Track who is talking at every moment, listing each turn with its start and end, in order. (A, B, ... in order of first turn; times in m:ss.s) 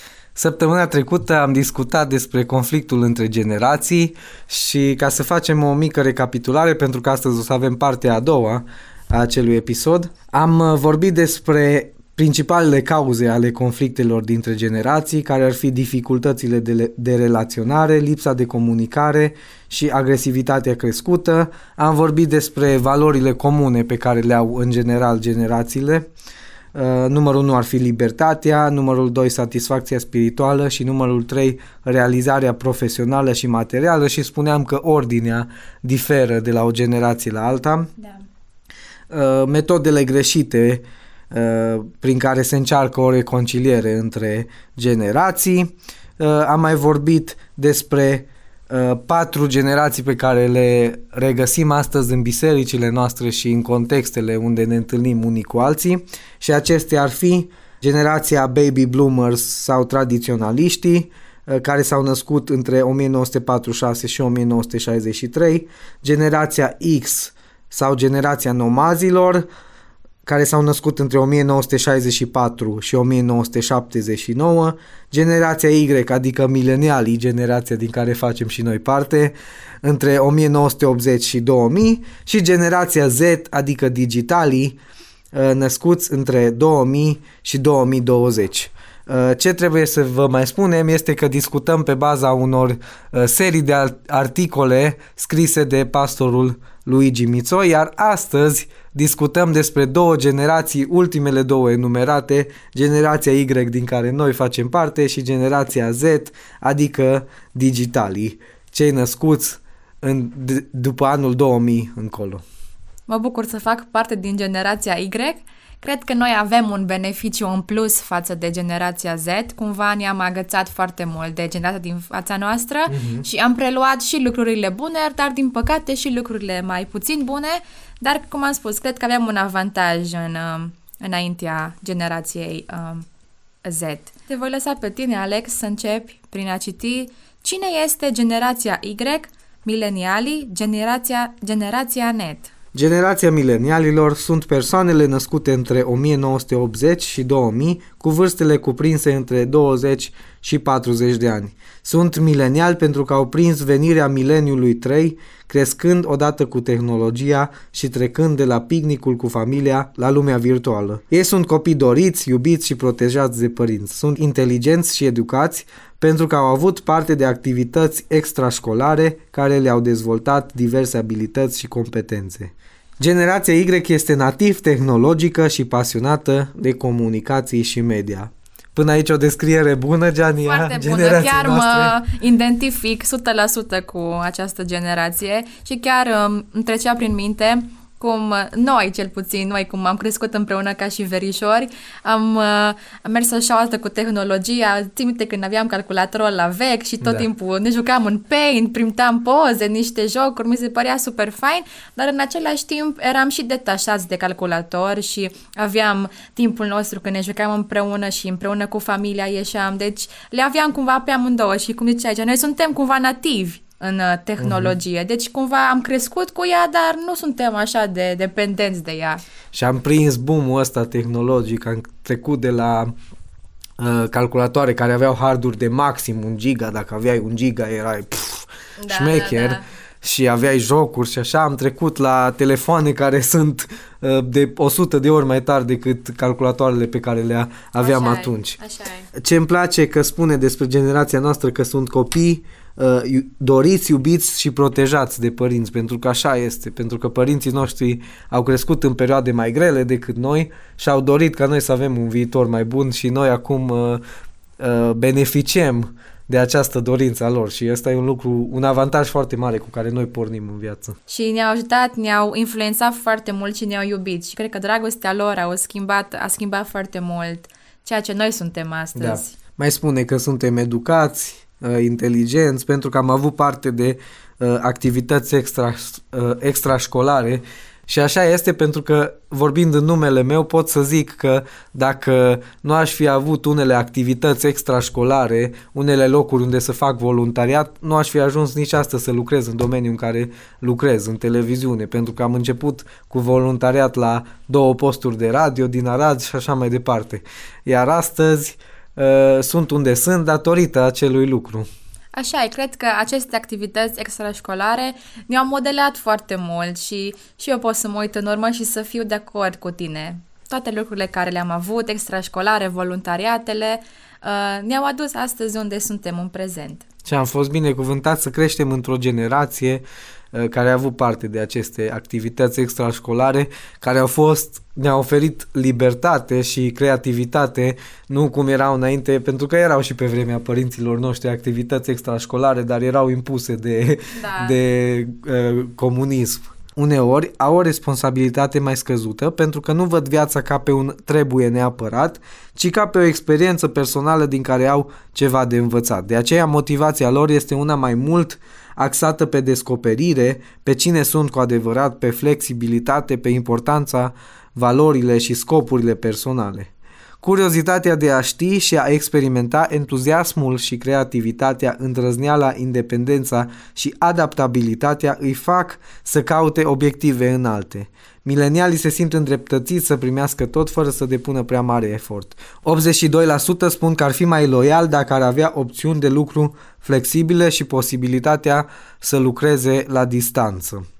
0:00.4-0:26.1 A
0:26.7-0:37.9 A
0:38.0-0:38.2 B
0:39.1-1:09.4 A
1:10.2-1:24.8 A
1:25.3-1:52.4 A
1:53.1-2:13.0 B
2:02.9-2:03.2 A
2:13.6-2:22.5 B
2:22.7-3:02.0 A
3:00.4-3:39.2 B
3:17.0-3:17.3 A
3:34.4-3:34.7 A
3:39.5-3:42.9 A
3:43.8-3:58.6 A
3:48.8-3:49.6 B
3:57.8-3:59.1 B
3:59.1-4:14.0 A
4:14.6-4:21.0 A
4:21.1-4:29.3 B
4:29.0-5:01.7 A
5:02.1-5:16.8 B
5:17.0-5:56.7 A
5:34.1-5:34.6 B
5:57.2-6:20.8 A